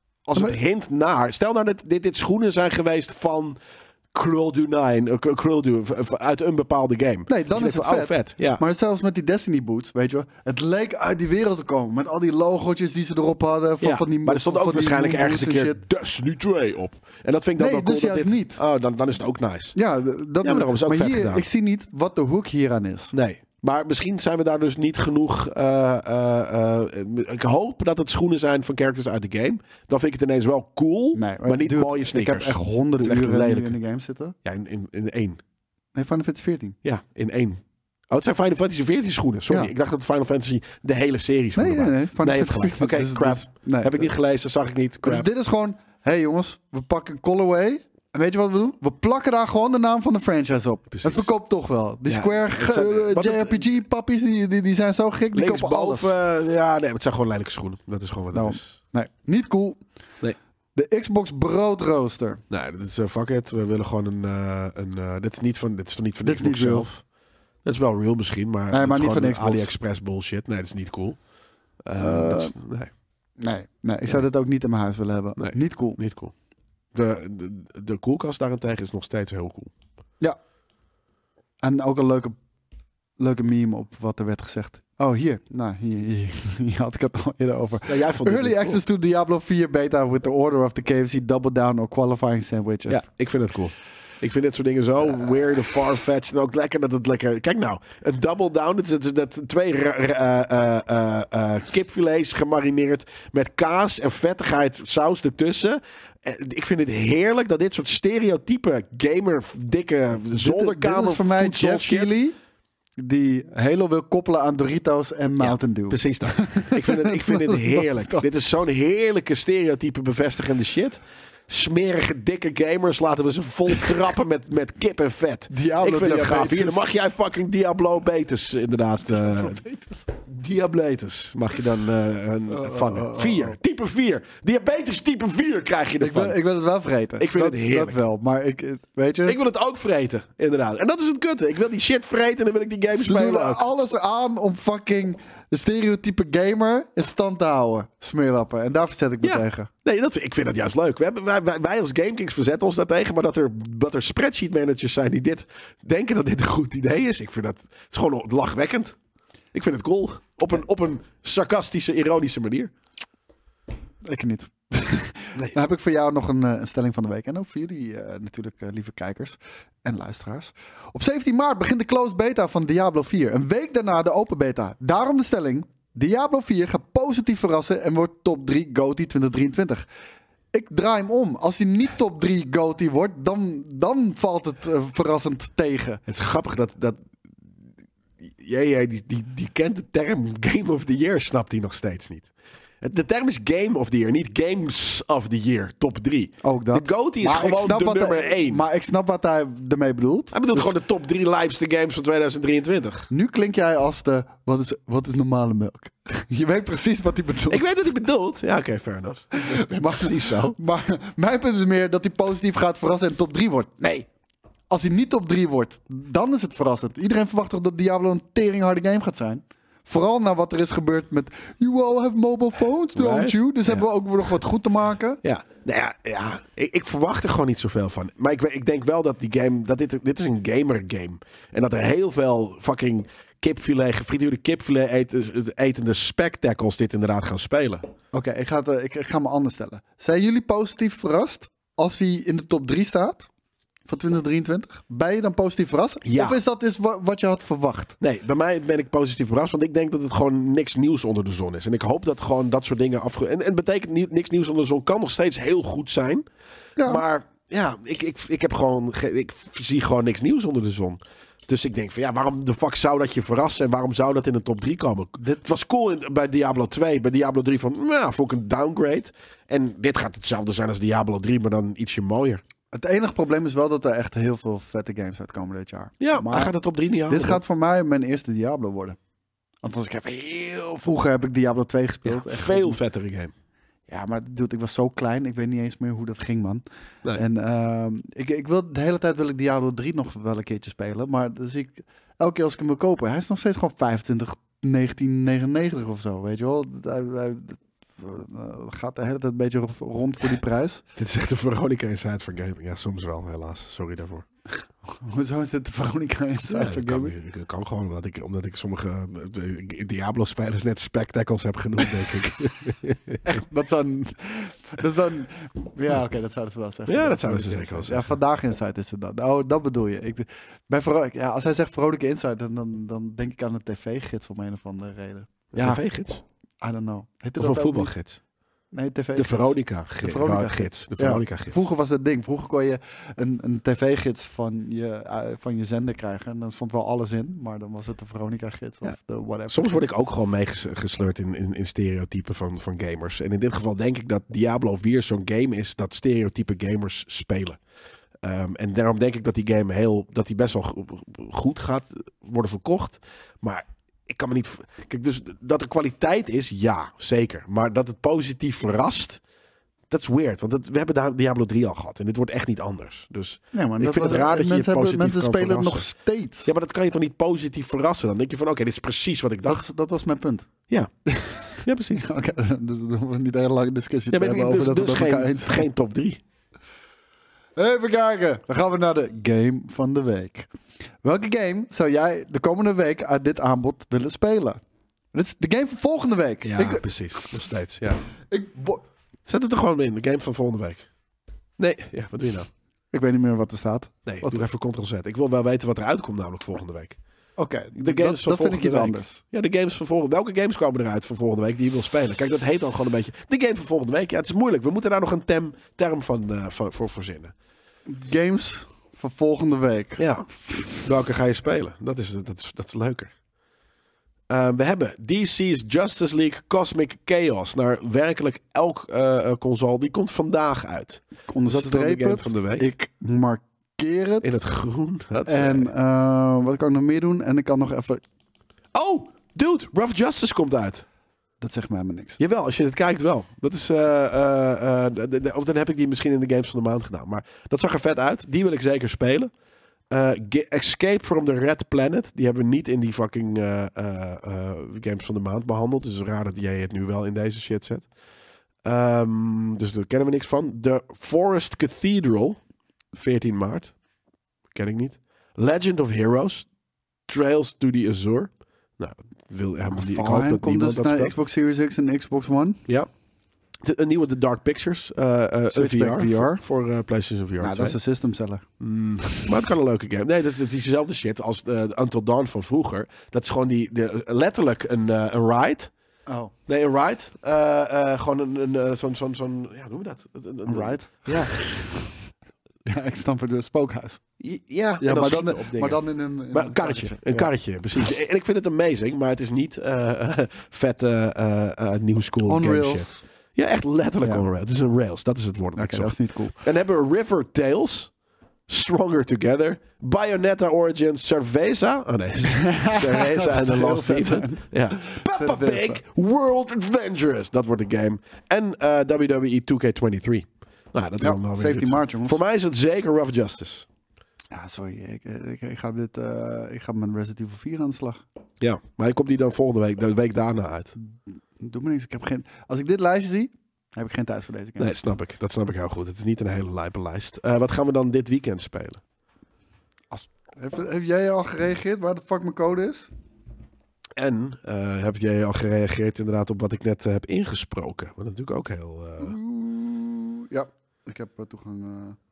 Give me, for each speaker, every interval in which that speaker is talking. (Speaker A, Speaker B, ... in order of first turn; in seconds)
Speaker A: 0.3-3.6, 4.1-8.6, 13.8-19.8, 20.4-21.4, 23.1-33.8, 34.4-35.4, 36.8-45.3, 50.9-51.3, 52.1-53.8, 55.3-58.8, 62.5-67.0, 67.6-71.2, 71.8-72.9, 75.4-76.3, 76.9-79.7, 87.9-88.8, 92.9-112.1, 115.4-136.4, 137.2-138.0, 139.2-143.7, 149.2-159.0, 159.5-162.7, 186.1-187.0, 188.2-198.6, 200.3-203.1, 207.5-210.6, 222.9-223.8, 225.2-237.9, 246.1-246.4, 248.0-256.3, 256.8-272.4, 276.0-277.4, 282.1-283.3, 301.0-304.3, 306.5-313.2, 316.9-318.1, 325.5-326.2, 327.4-328.2, 329.2-331.7, 339.5-347.6, 348.2-359.2, 359.9-365.9, 366.4-369.6, 371.6-372.0, 374.1-376.2, 386.4-388.0, 389.3-390.9, 391.6-392.5, 394.1-397.0, 397.8-407.3, 410.0-413.1, 414.3-422.7, 424.2-425.7, 428.7-430.9, 432.2-439.3, 439.9-447.9, 448.6-452.4, 452.9-453.7, 454.5-456.5, 457.1-461.2, 463.6-467.8, 468.6-475.7, 476.5-481.4, 484.2-485.8, 486.3-497.9, 498.5-513.7, 518.4-520.7, 524.6-528.8, 534.0-539.2
Speaker B: 7.3-15.8, 17.6-18.6, 19.8-23.1, 31.1-34.4, 36.0-36.8, 41.6-44.1, 45.0-56.1, 58.3-59.8, 60.8-62.4, 66.2-66.9, 68.7-69.8, 72.0-72.5, 73.4-76.0, 81.6-82.4, 83.2-93.0, 110.3-112.3, 113.0-118.2, 125.5-126.9, 129.4-130.0, 132.5-133.6, 136.0-139.4, 142.9-149.7, 164.1-179.9, 180.5-186.0, 196.4-200.7, 203.1-207.7, 209.3-214.1, 214.7-225.2, 238.1-243.3, 243.9-248.0, 256.8-257.0, 272.7-276.6, 277.1-279.0, 279.6-282.8, 283.9-286.6, 287.2-300.8, 304.9-307.1, 313.2-325.8, 326.6-327.9, 328.7-339.9, 363.5-366.5, 369.5-370.5, 371.1-375.7, 377.6-380.5, 381.0-384.6, 385.1-387.3, 388.3-388.8, 392.9-394.5, 397.4-399.2, 407.9-410.8, 421.3-424.3, 425.3-428.0, 431.4-432.2, 459.7-462.6, 465.5-466.4, 467.4-468.4, 476.1-476.3, 480.5-481.9, 482.7-484.0, 484.8-487.3, 492.3-493.0, 495.6-496.4, 502.4-505.8, 511.0-512.2, 514.3-518.0, 521.4-524.7, 529.9-532.9, 539.0-542.0